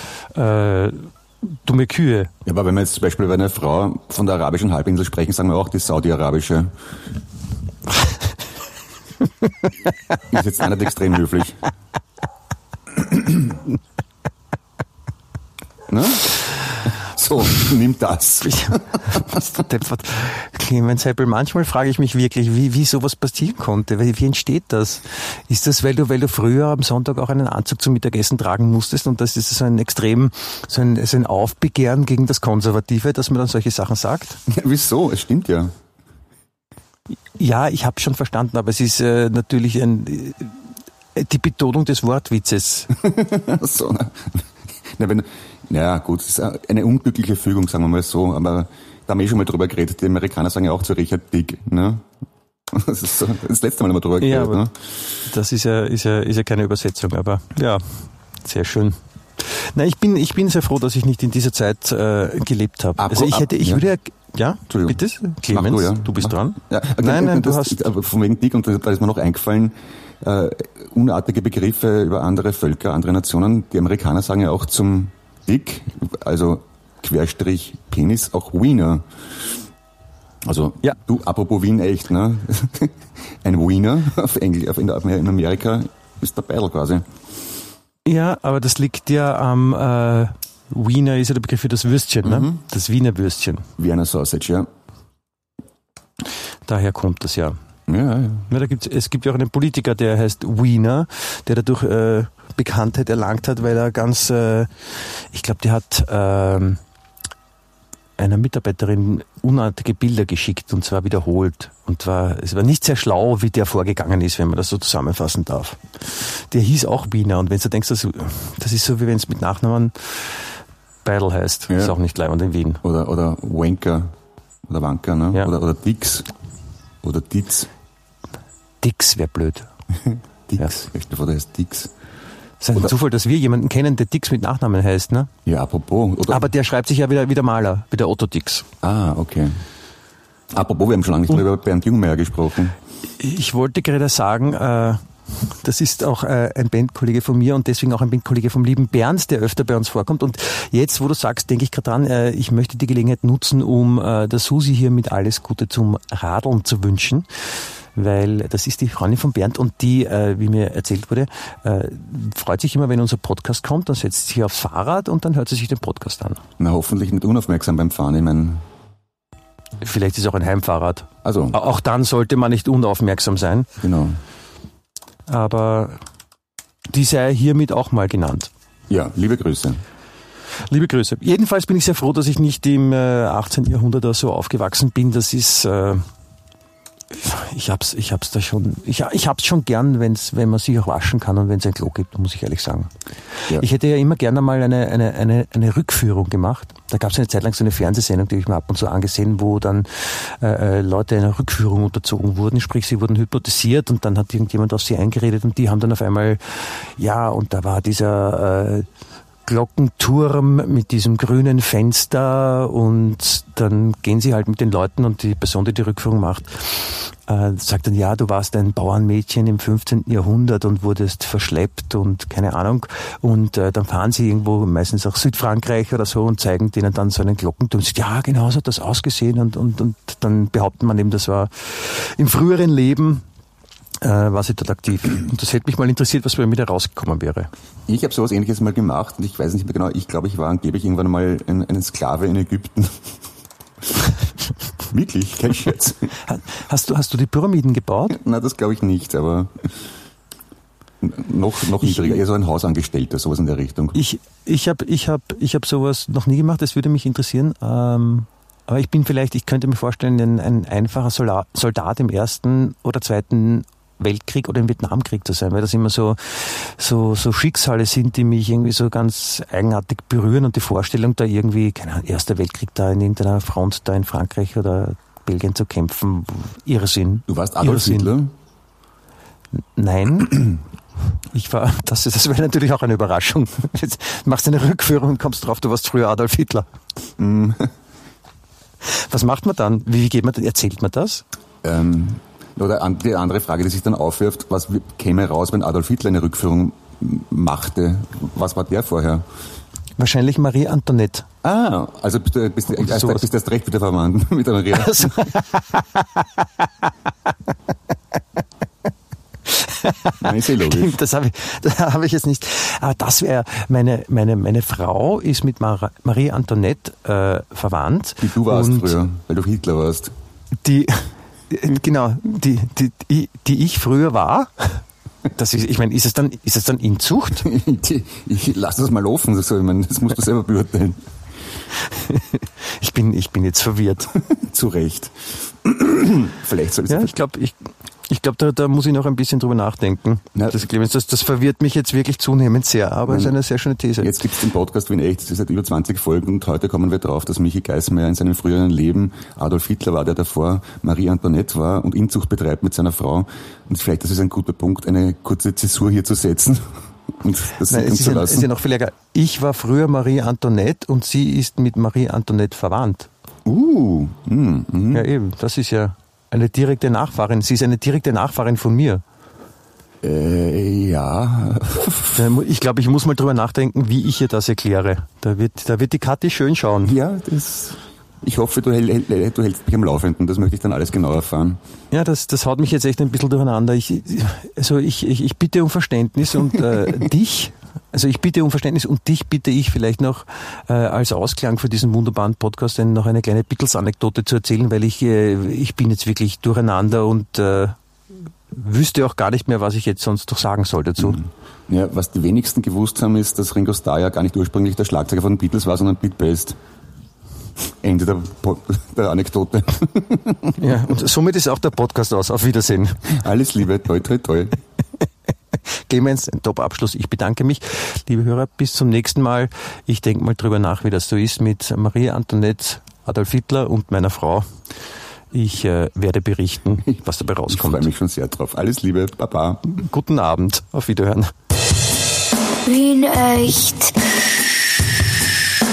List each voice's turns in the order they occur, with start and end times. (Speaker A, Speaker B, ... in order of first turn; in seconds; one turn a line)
Speaker A: 0.3-2.3
Speaker B: 2.4-6.7
Speaker B: 10.3-11.6
Speaker B: 12.9-13.6
Speaker B: 15.9-19.7
Speaker A: 18.4-34.4
Speaker B: 34.5-35.7
Speaker A: 37.4-40.5
Speaker A: 41.1-42.9
Speaker B: 43.0-52.1
Speaker B: 52.7-54.8
Speaker A: 54.2-54.6
Speaker A: 55.2-67.8
Speaker B: 63.0-63.8
Speaker B: 64.7-79.5
Speaker B: 80.4-87.0
Speaker A: 88.0-93.7
Speaker B: 92.2-92.6
Speaker B: 93.8-94.7
Speaker A: 96.7-97.6
Speaker B: 97.9-98.5
Speaker A: 98.5-106.8
Speaker A: 108.2-120.5
Speaker A: 121.0-122.8
Speaker B: 121.7-121.9
Speaker B: 122.8-124.1
Speaker B: 124.7-126.3
Speaker B: 127.0-127.7
Speaker A: 128.8-129.7
Speaker B: 130.0-131.9
Speaker A: 132.6-135.3
Speaker B: 135.4-136.5
Speaker A: 136.3-138.7
Speaker B: 138.8-139.6
Speaker B: 140.5-142.8
Speaker A: 143.2-166.4
Speaker B: 166.6-168.7
Speaker A: 169.8-173.7
Speaker B: 171.2-171.6
Speaker B: 173.8-174.2
Speaker A: 175.3-176.0
Speaker A: 176.9-178.5
Speaker B: 178.9-179.8
Speaker A: 180.7-186.0
Speaker A: 187.1-192.9
Speaker A: 193.5-208.9
Speaker A: 209.4-233.2
Speaker A: 234.0-237.5
Speaker B: 237.9-243.1
Speaker B: 244.9-246.1
Speaker A: 246.3-248.2
Speaker B: 248.1-249.8
Speaker B: 251.0-254.0
Speaker A: 251.8-252.2
Speaker A: 253.9-278.1
Speaker B: 277.3-278.3
Speaker A: 279.8-280.6
Speaker A: 281.3-286.7
Speaker B: 287.2-287.7
Speaker A: 288.8-291.2
Speaker B: 291.6-299.2
Speaker A: 300.0-301.3
Speaker B: 301.4-305.3
Speaker A: 302.8-303.2
Speaker A: 304.7-306.9
Speaker A: 309.4-319.0
Speaker B: 310.2-311.0
Speaker B: 318.2-320.1
Speaker A: 320.6-327.4
Speaker B: 327.4-331.0
Speaker A: 331.9-334.1
Speaker B: 334.1-337.1
Speaker A: 336.9-344.2
Speaker B: 340.3-340.7
Speaker B: 343.1-343.4
Speaker B: 344.0-358.5
Speaker A: 357.6-363.1
Speaker B: 363.4-365.1
Speaker A: 364.9-369.0
Speaker B: 370.0-372.2
Speaker A: 372.1-376.9
Speaker B: 376.8-381.6
Speaker A: 381.9-397.8
Speaker A: 398.5-401.2
Speaker B: 401.0-406.6
Speaker B: 407.6-410.6
Speaker A: 410.6-413.0
Speaker B: 413.1-414.6
Speaker A: 415.8-424.5
Speaker A: 425.3-427.9
Speaker B: 426.8-429.7
Speaker A: 429.6-431.3
Speaker C: 432.6-434.7